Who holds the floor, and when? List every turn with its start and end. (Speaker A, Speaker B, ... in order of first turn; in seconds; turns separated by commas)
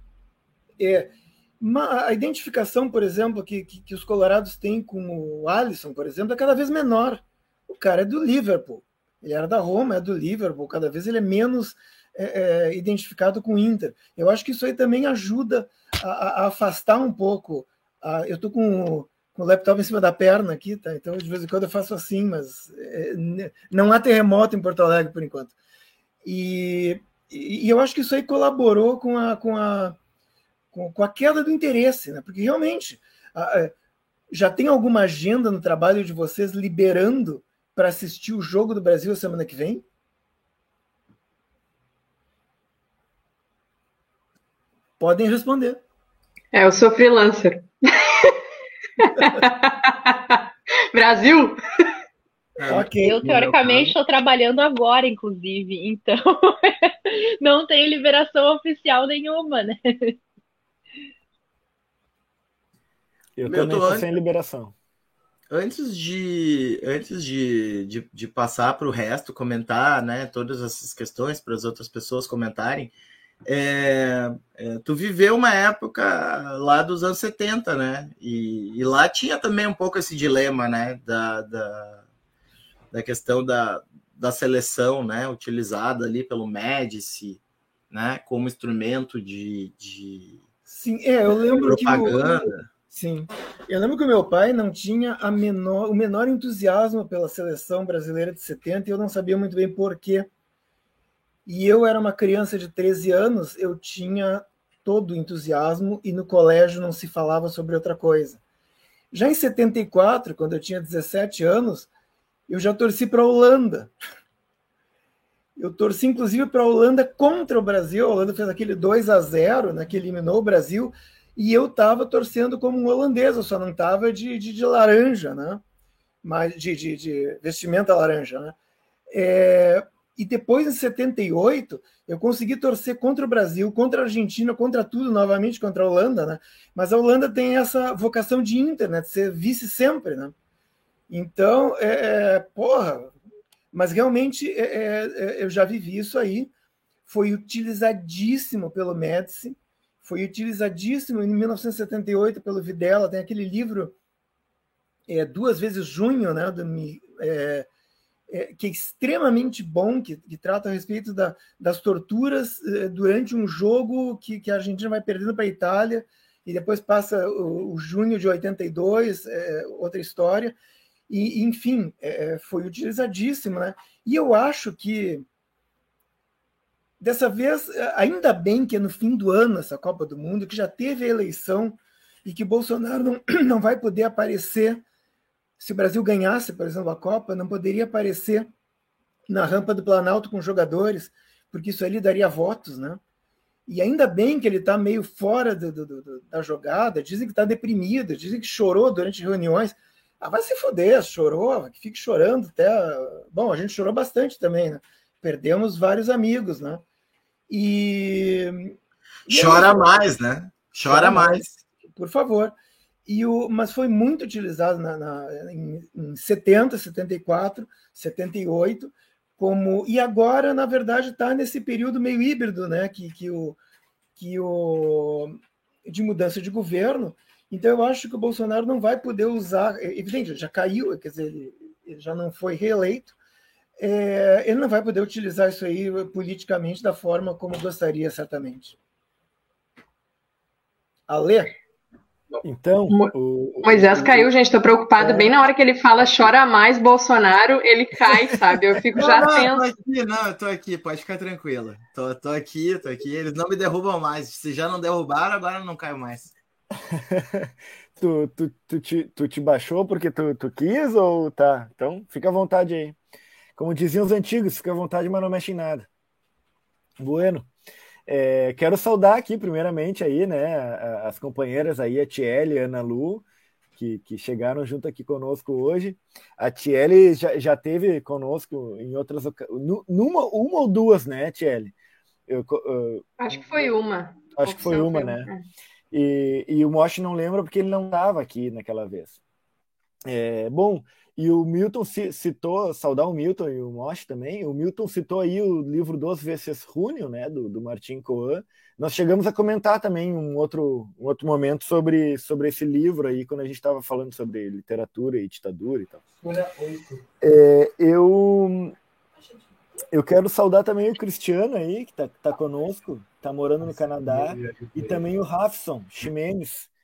Speaker A: 0.8-25.5, Speaker A: 26.2-30.0, Speaker A: 30.7-33.7, Speaker A: 34.3-39.8, Speaker A: 45.0-45.8, Speaker B: 46.5-48.4, Speaker B: 49.0-51.6, Speaker C: 52.6-52.9, Speaker A: 52.7-53.6, Speaker D: 53.0-60.2, Speaker E: 63.4-64.7, Speaker C: 63.5-64.1, Speaker C: 65.5-72.9, Speaker C: 73.5-82.0, Speaker C: 82.9-90.4, Speaker A: 90.7-100.3, Speaker C: 91.6-92.6, Speaker A: 101.5-108.4, Speaker A: 109.1-111.9, Speaker A: 112.5-113.9, Speaker A: 115.6-125.6, Speaker A: 126.2-128.6, Speaker A: 129.1-140.3, Speaker A: 141.1-143.1, Speaker A: 143.7-146.5, Speaker A: 147.1-153.9, Speaker A: 155.1-157.7, Speaker A: 158.3-170.6, Speaker A: 171.1-175.3, Speaker A: 177.0-184.8, Speaker A: 185.6-188.5, Speaker A: 189.3-193.0, Speaker A: 193.7-206.8, Speaker A: 207.5-208.8, Speaker C: 209.3-211.6, Speaker A: 209.3-209.9, Speaker A: 210.9-211.4, Speaker A: 211.9-212.6, Speaker A: 213.1-223.6, Speaker A: 224.2-233.2, Speaker A: 233.8-238.8, Speaker A: 241.1-241.6, Speaker E: 242.4-244.3, Speaker B: 242.9-249.7, Speaker C: 249.0-256.3, Speaker E: 256.9-263.0, Speaker E: 263.6-265.9, Speaker E: 267.0-267.5, Speaker E: 268.1-273.2, Speaker E: 273.8-281.7, Speaker E: 282.3-283.4, Speaker B: 283.2-285.4, Speaker E: 284.4-285.3, Speaker E: 285.9-289.2, Speaker E: 290.1-306.0, Speaker E: 307.2-308.8, Speaker E: 309.9-316.7